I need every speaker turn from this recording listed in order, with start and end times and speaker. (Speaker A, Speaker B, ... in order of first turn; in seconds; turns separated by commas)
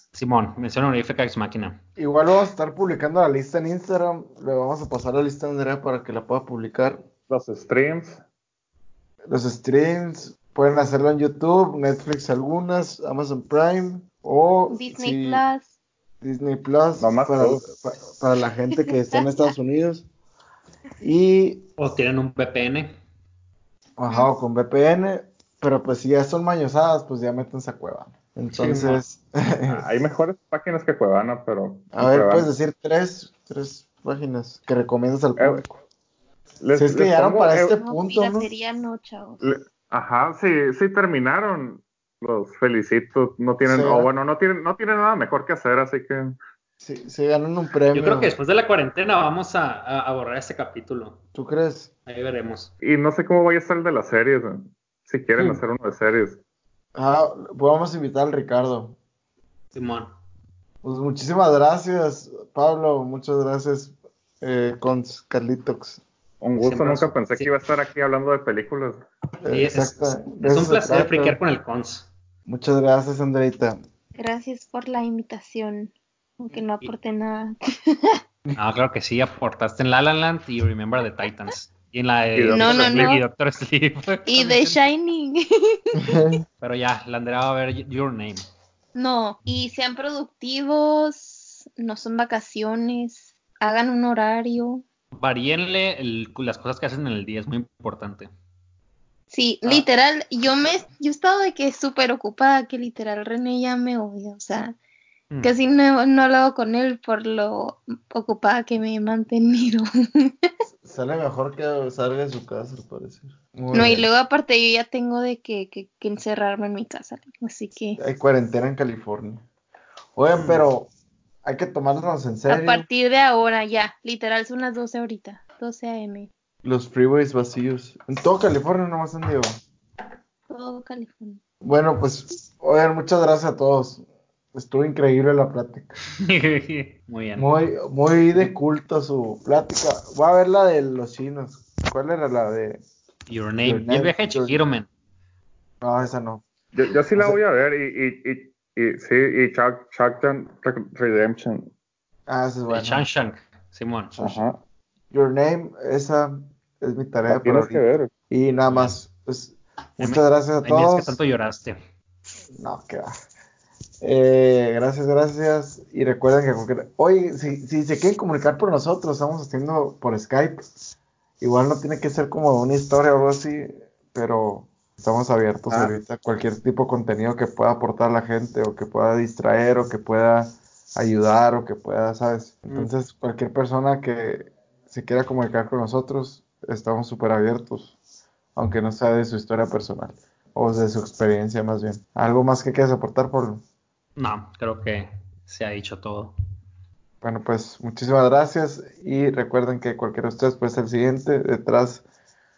Speaker A: 0.1-1.8, Speaker B: 2.0-7.0, Speaker C: 7.3-8.2, Speaker B: 9.3-15.4, Speaker D: 14.7-15.7, Speaker B: 16.2-20.1, Speaker C: 17.0-17.6, Speaker D: 18.8-19.5, Speaker B: 21.0-21.7, Speaker A: 21.8-22.9, Speaker B: 24.0-29.8, Speaker A: 28.6-29.0, Speaker C: 29.7-32.5, Speaker B: 31.9-35.7, Speaker C: 35.4-35.6, Speaker C: 36.6-37.7, Speaker B: 36.7-38.5, Speaker D: 37.8-39.4, Speaker C: 39.4-46.4, Speaker B: 43.6-44.1, Speaker B: 46.8-48.3, Speaker A: 47.9-51.2, Speaker B: 51.3-51.9, Speaker A: 52.0-52.7, Speaker C: 52.8-56.4, Speaker B: 56.9-59.0, Speaker A: 59.7-60.1, Speaker B: 60.8-66.0, Speaker C: 66.4-69.0, Speaker A: 66.6-67.5, Speaker B: 69.4-71.4, Speaker A: 69.5-72.1, Speaker B: 72.5-73.8, Speaker D: 74.2-78.2, Speaker A: 78.5-84.8, Speaker C: 82.3-83.1, Speaker D: 82.5-83.2, Speaker D: 84.2-86.3, Speaker B: 86.0-86.4, Speaker A: 86.6-88.4, Speaker D: 88.9-94.8, Speaker A: 95.1-98.3, Speaker D: 99.3-104.8, Speaker D: 105.4-110.5, Speaker B: 110.8-114.1, Speaker D: 113.7-118.0, Speaker B: 118.0-119.4, Speaker B: 120.2-120.9, Speaker B: 121.4-122.8, Speaker D: 122.5-126.3, Speaker B: 126.6-129.6, Speaker D: 130.5-131.4, Speaker B: 131.6-135.9, Speaker A: 136.2-137.5, Speaker B: 137.4-142.8, Speaker A: 143.3-144.9, Speaker B: 143.6-144.6, Speaker B: 145.8-146.4, Speaker C: 146.7-151.7, Speaker B: 152.3-153.0, Speaker A: 152.7-154.2, Speaker C: 154.2-154.6, Speaker B: 155.1-161.2, Speaker C: 157.3-158.1, Speaker A: 158.7-158.9, Speaker A: 160.0-161.8, Speaker B: 162.6-163.1, Speaker B: 164.0-170.7, Speaker B: 171.4-187.9, Speaker B: 188.6-193.6, Speaker A: 194.2-196.3, Speaker B: 197.2-202.0